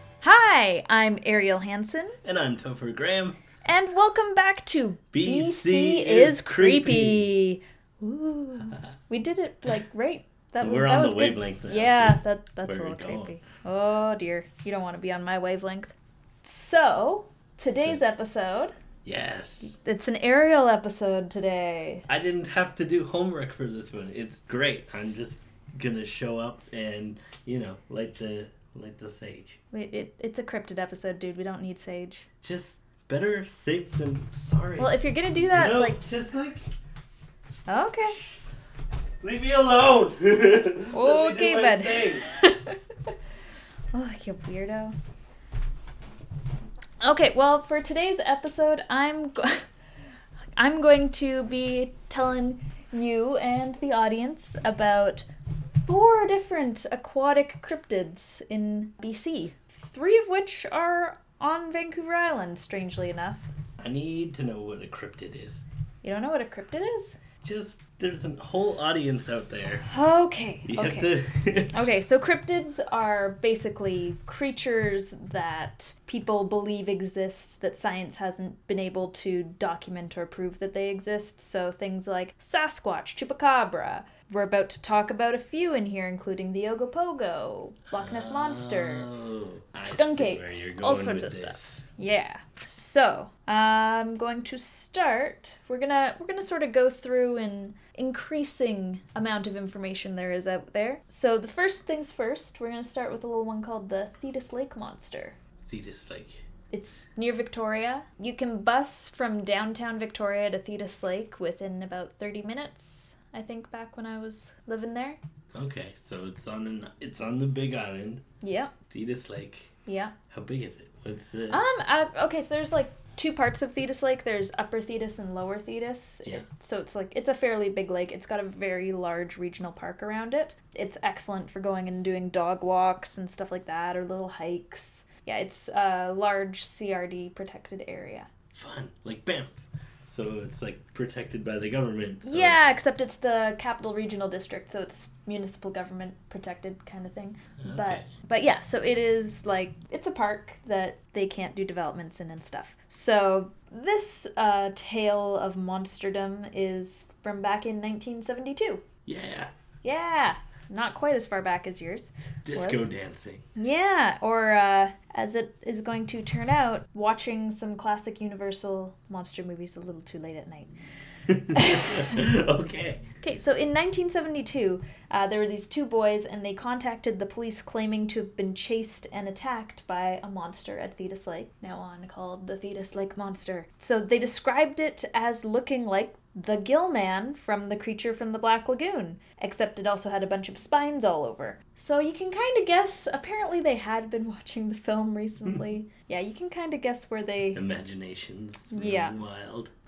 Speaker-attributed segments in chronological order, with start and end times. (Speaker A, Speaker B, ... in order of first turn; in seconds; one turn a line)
Speaker A: 0.2-2.2
Speaker B: 2.2-3.4
Speaker A: 3.6-18.7
Speaker B: 5.1-7.3
Speaker B: 10.6-13.4
Speaker B: 19.1-19.7
Speaker A: 19.6-22.1
Speaker B: 22.1-29.6
Speaker A: 29.7-32.3
Speaker B: 32.4-35.0
Speaker A: 34.8-36.0
Speaker B: 35.5-36.7
Speaker A: 37.7-38.2
Speaker B: 38.1-38.4
Speaker B: 39.2-42.3
Speaker A: 40.9-42.8
Speaker A: 43.9-45.0
Speaker A: 47.0-49.6
Speaker A: 50.6-55.3
Speaker A: 55.9-63.5
Speaker B: 63.8-65.6
Speaker A: 66.0-67.2
Speaker B: 67.4-69.8
Speaker A: 69.9-71.1
Speaker B: 70.7-71.8
Speaker A: 71.7-89.1
Speaker B: 87.9-91.9
Speaker A: 89.8-105.4
Speaker B: 105.6-106.4
Speaker A: 106.7-115.2
Speaker B: 115.5-118.2
Speaker A: 118.4-118.7
Speaker B: 118.9-119.8
Speaker A: 119.9-120.2
Speaker B: 120.3-121.6
Speaker A: 121.5-138.3
Speaker B: 138.5-142.6
Speaker A: 142.2-158.8
Speaker B: 147.6-148.1
Speaker B: 159.1-159.5
Speaker A: 159.8-162.9
Speaker B: 162.4-163.4
Speaker A: 163.6-170.7
Speaker B: 171.3-173.1
Speaker A: 171.5-172.2
Speaker A: 173.2-197.6
Speaker B: 197.6-199.7
Speaker A: 198.7-199.2